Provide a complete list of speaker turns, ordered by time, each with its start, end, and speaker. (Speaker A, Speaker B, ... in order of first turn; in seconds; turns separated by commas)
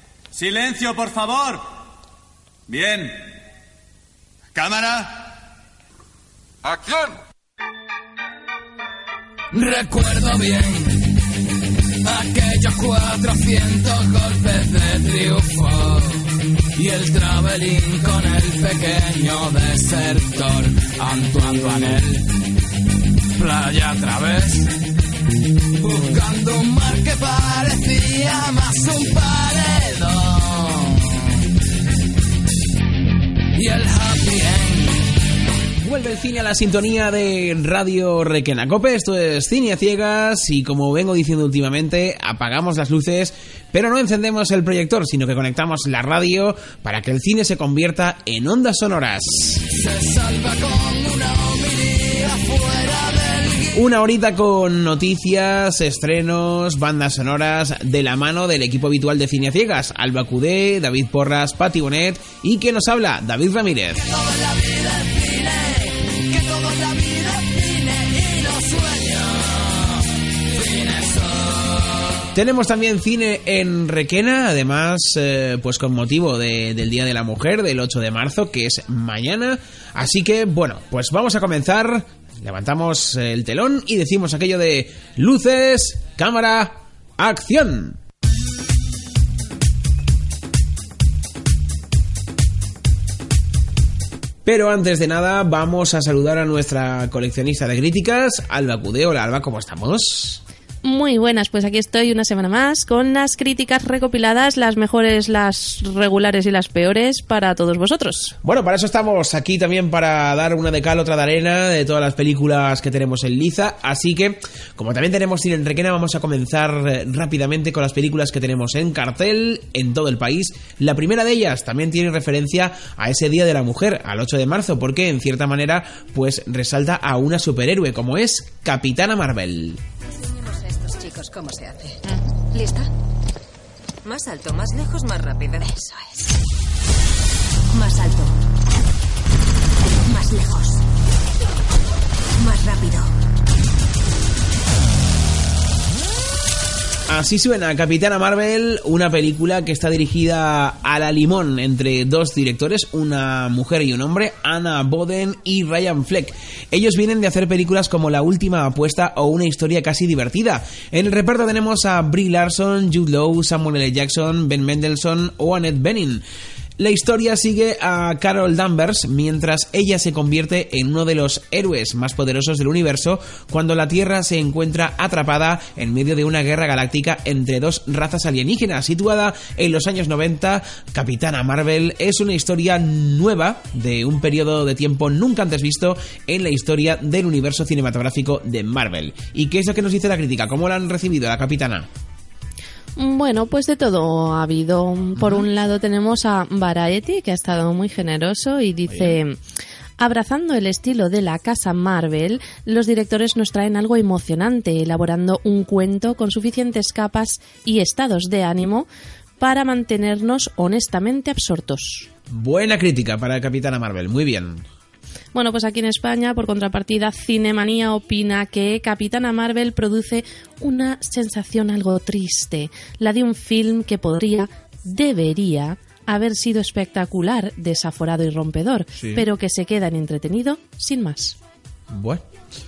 Speaker A: 0.3-1.6, Speaker A: 2.7-3.3, Speaker A: 4.5-5.3, Speaker B: 9.5-11.0, Speaker B: 12.0-16.2, Speaker B: 16.8-22.3, Speaker B: 23.4-24.7, Speaker B: 25.8-31.1, Speaker B: 33.5-35.0, Speaker C: 35.8-49.6, Speaker B: 49.7-53.8, Speaker C: 53.7-64.1, Speaker B: 64.0-72.0, Speaker C: 72.3-88.0, Speaker C: 94.4-100.4, Speaker D: 100.8-108.3, Speaker C: 108.4-129.8, Speaker E: 130.1-132.9, Speaker E: 134.0-136.3, Speaker E: 137.7-138.3, Speaker E: 140.1-140.8, Speaker E: 142.3-143.1, Speaker C: 147.1-166.2, Speaker C: 166.8-191.9, Speaker D: 192.9-199.4, Speaker C: 195.1-195.5, Speaker C: 198.9-199.2, Speaker D: 200.0-208.9, Speaker D: 209.4-212.1, Speaker C: 212.3-214.7, Speaker D: 215.3-231.3, Speaker C: 228.9-229.3, Speaker C: 231.9-232.2